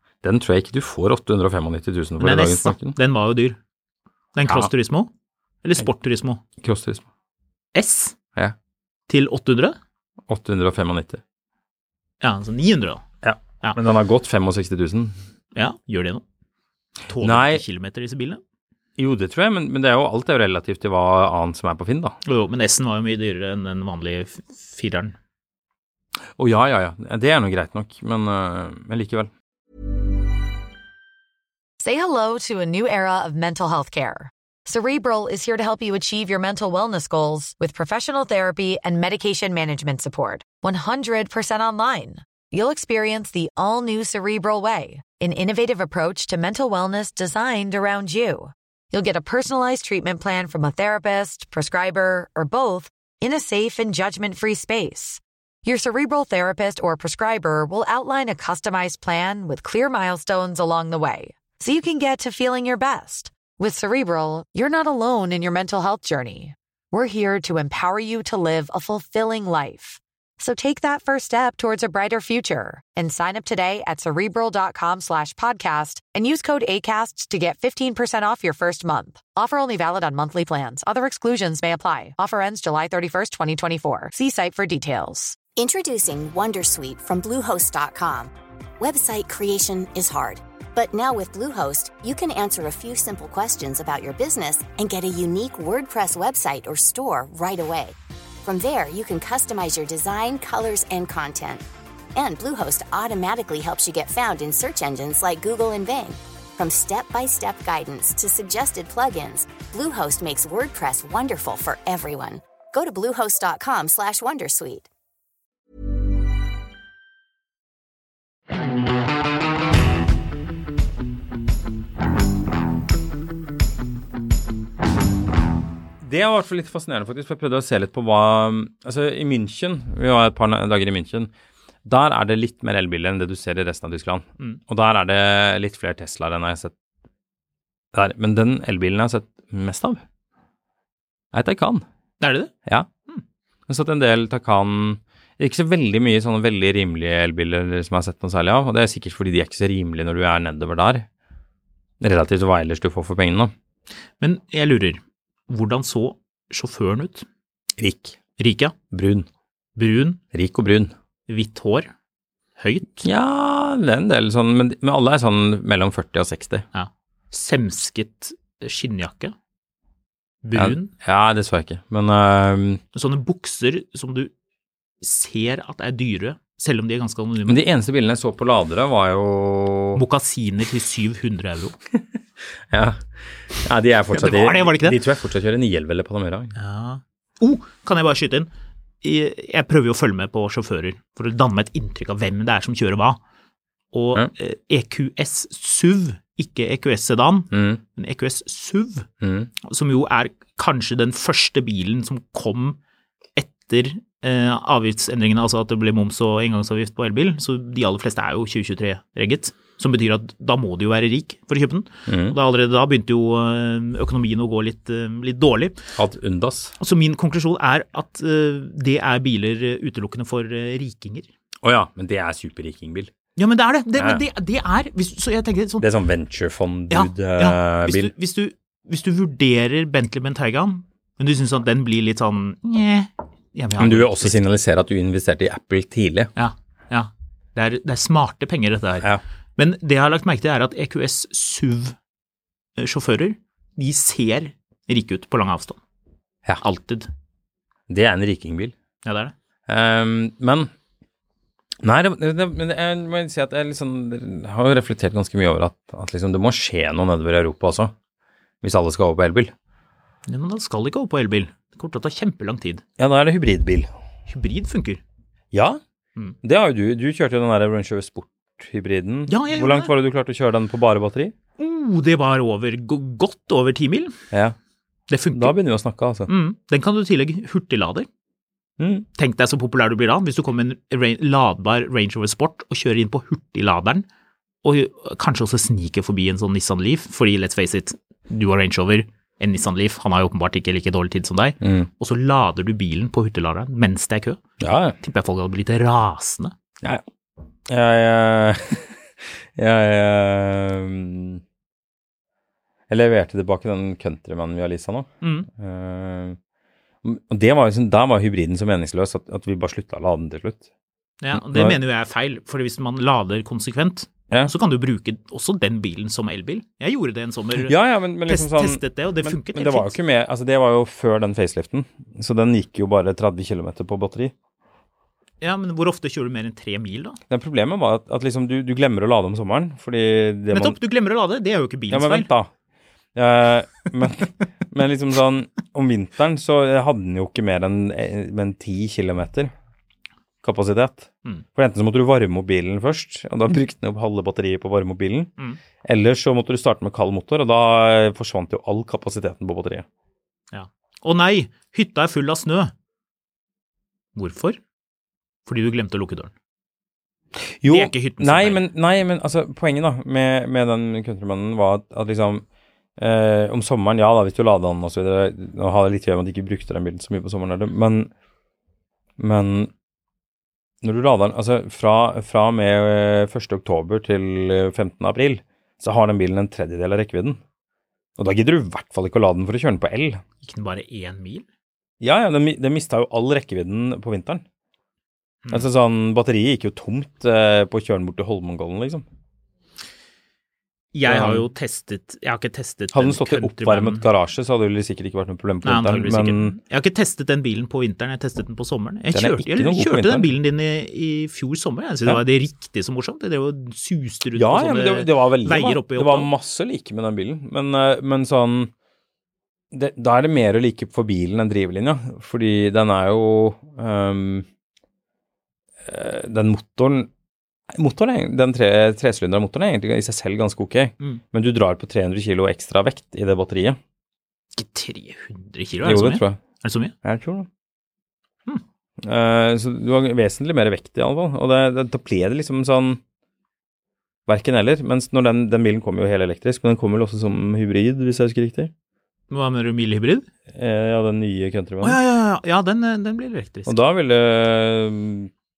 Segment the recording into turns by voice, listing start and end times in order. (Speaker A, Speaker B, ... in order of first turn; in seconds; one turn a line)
Speaker A: 0.2-3.0
Speaker B: 2.2-3.6
Speaker B: 4.3-5.1
Speaker B: 5.6-6.4
Speaker A: 6.6-7.0
Speaker B: 7.7-8.2
Speaker B: 9.1-9.8
Speaker A: 10.3-11.2
Speaker B: 12.2-13.0
Speaker A: 13.2-15.2
Speaker B: 15.5-16.2
Speaker B: 17.1-18.4
Speaker A: 17.2-17.6
Speaker A: 19.0-22.1
Speaker B: 22.2-25.1
Speaker A: 26.4-29.3
Speaker C: 31.8-85.4
Speaker D: 85.5-101.6
Speaker D: 102.2-114.9
Speaker A: 126.0-131.3
Speaker A: 131.8-136.7
Speaker A: 137.9-140.0
Speaker A: 141.3-141.8
Speaker B: 142.2-142.5
Speaker A: 143.7-151.1
Speaker A: 152.0-153.5
Speaker B: 154.2-157.2
Speaker A: 157.8-158.2
Speaker B: 158.4-158.7
Speaker A: 158.9-159.3
Speaker B: 159.8-160.2
Speaker A: 160.3-160.9
Speaker B: 161.3-161.9
Speaker B: 162.6-163.1
Speaker A: 163.0-166.6
Speaker B: 166.7-169.3
Speaker B: 170.4-170.9
Speaker A: 170.5-172.8
Speaker B: 172.9-174.3
Speaker B: 175.0-177.6
Speaker A: 177.5-180.0
Speaker B: 179.9-181.8
Speaker A: 182.7-186.5
Speaker B: 184.1-185.0
Speaker B: 186.6-188.5
Speaker B: 189.0-193.2
Speaker B: 193.9-199.1
Speaker A: 197.5-197.8
Speaker A: 199.2-199.5
Speaker B: 199.6-202.8
Speaker B: 203.3-215.8
Speaker A: 212.1-212.3
Speaker A: 215.9-216.7
Speaker B: 216.8-221.3
Speaker A: 221.6-223.1
Speaker B: 223.4-225.8
Speaker A: 225.8-228.1
Speaker B: 226.9-234.4
Speaker A: 233.8-236.3
Speaker B: 236.3-241.9
Speaker B: 242.8-245.8
Speaker B: 246.6-247.1
Speaker A: 247.9-248.7
Speaker B: 249.0-249.3
Speaker A: 249.7-250.7
Speaker A: 251.8-257.9
Speaker A: 258.6-259.5
Speaker B: 260.3-262.8
Speaker A: 263.0-263.9
Speaker B: 264.3-265.0
Speaker A: 265.5-265.8
Speaker A: 266.4-271.3
Speaker B: 269.3-269.9
Speaker B: 271.6-274.1
Speaker B: 275.1-275.6
Speaker A: 275.3-276.3
Speaker B: 276.3-278.1
Speaker A: 278.8-279.1
Speaker B: 279.1-284.1
Speaker B: 284.6-294.4
Speaker A: 291.6-291.9
Speaker A: 294.6-295.0
Speaker B: 295.0-296.5
Speaker A: 297.7-298.9
Speaker A: 299.6-301.4
Speaker A: 302.9-306.4
Speaker B: 305.2-305.5
Speaker A: 307.0-310.6
Speaker B: 311.2-317.7
Speaker A: 311.3-311.8
Speaker A: 317.6-324.3
Speaker B: 318.2-319.9
Speaker B: 325.4-327.2
Speaker A: 327.3-330.8
Speaker B: 330.5-332.3
Speaker A: 331.9-332.5
Speaker A: 333.1-339.5
Speaker A: 340.4-345.3
Speaker A: 345.8-349.9
Speaker B: 350.5-352.7
Speaker B: 354.1-354.6
Speaker B: 355.4-356.3
Speaker A: 357.6-362.4
Speaker B: 357.6-358.6
Speaker A: 363.0-368.1
Speaker A: 369.2-369.7
Speaker A: 370.8-377.4
Speaker A: 378.2-380.2
Speaker B: 380.4-381.4
Speaker A: 382.0-384.4
Speaker A: 385.5-389.0
Speaker B: 390.9-394.0
Speaker A: 391.1-391.4
Speaker A: 392.9-396.5
Speaker B: 395.6-406.3
Speaker A: 399.1-400.3
Speaker A: 404.4-408.7
Speaker A: 409.7-414.4
Speaker A: 415.9-417.1
Speaker A: 417.7-423.8
Speaker B: 424.5-426.9
Speaker A: 425.8-426.4
Speaker A: 427.0-427.5
Speaker A: 429.0-433.0
Speaker A: 434.3-438.7
Speaker B: 439.3-440.3
Speaker A: 440.5-442.0
Speaker B: 441.8-443.7
Speaker A: 443.6-445.3